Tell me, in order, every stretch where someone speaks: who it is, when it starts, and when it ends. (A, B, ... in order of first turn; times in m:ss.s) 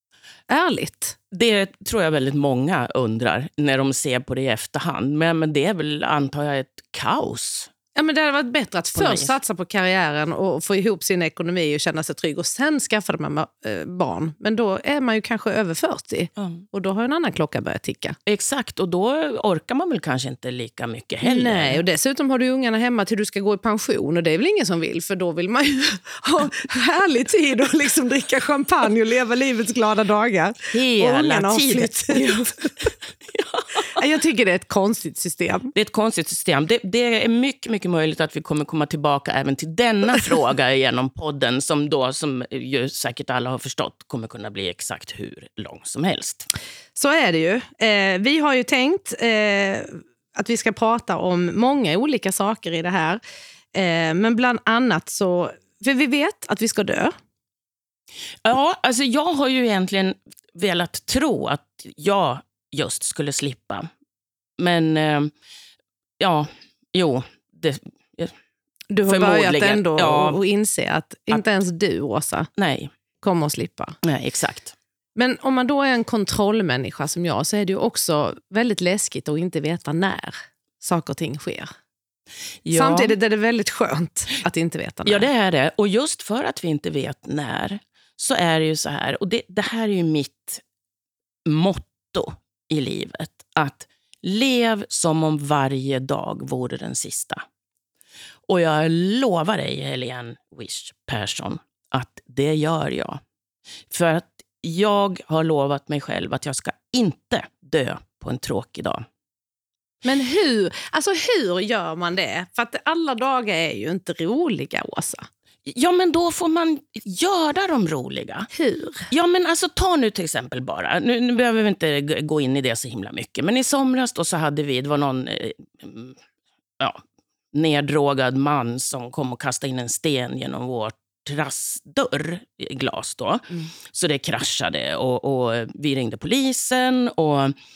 0:00.5-0:01.2 A
0:01.3-0:07.7 B
0:08.0-0:18.2 A
0:09.0-0:09.3 B
0:16.4-0:16.6 B
0:18.3-0:21.8 B
0:21.2-0:32.7 A
0:30.7-0:34.0 B
0:33.9-0:35.7 A
0:35.7-0:46.5 B
0:47.0-0:53.2 A
0:53.7-0:57.2 A
0:58.4-1:03.9 B
1:04.6-1:05.3 B
1:06.2-1:08.4 B
1:08.9-1:12.5 A
1:09.1-1:10.4 B
1:12.6-1:12.9 B
1:13.2-1:14.0 A
1:14.0-1:14.8 B
1:15.2-1:21.7 A
1:22.6-1:23.2 B
1:22.7-1:25.3 A
1:25.0-1:30.6 B
1:31.4-1:37.4 B
1:38.5-1:43.2 B
1:43.9-1:49.0 B
1:50.0-1:55.3 A
1:55.7-1:58.5 B
1:58.5-1:59.1 A
1:59.1-2:06.2 B
2:07.5-2:17.6 B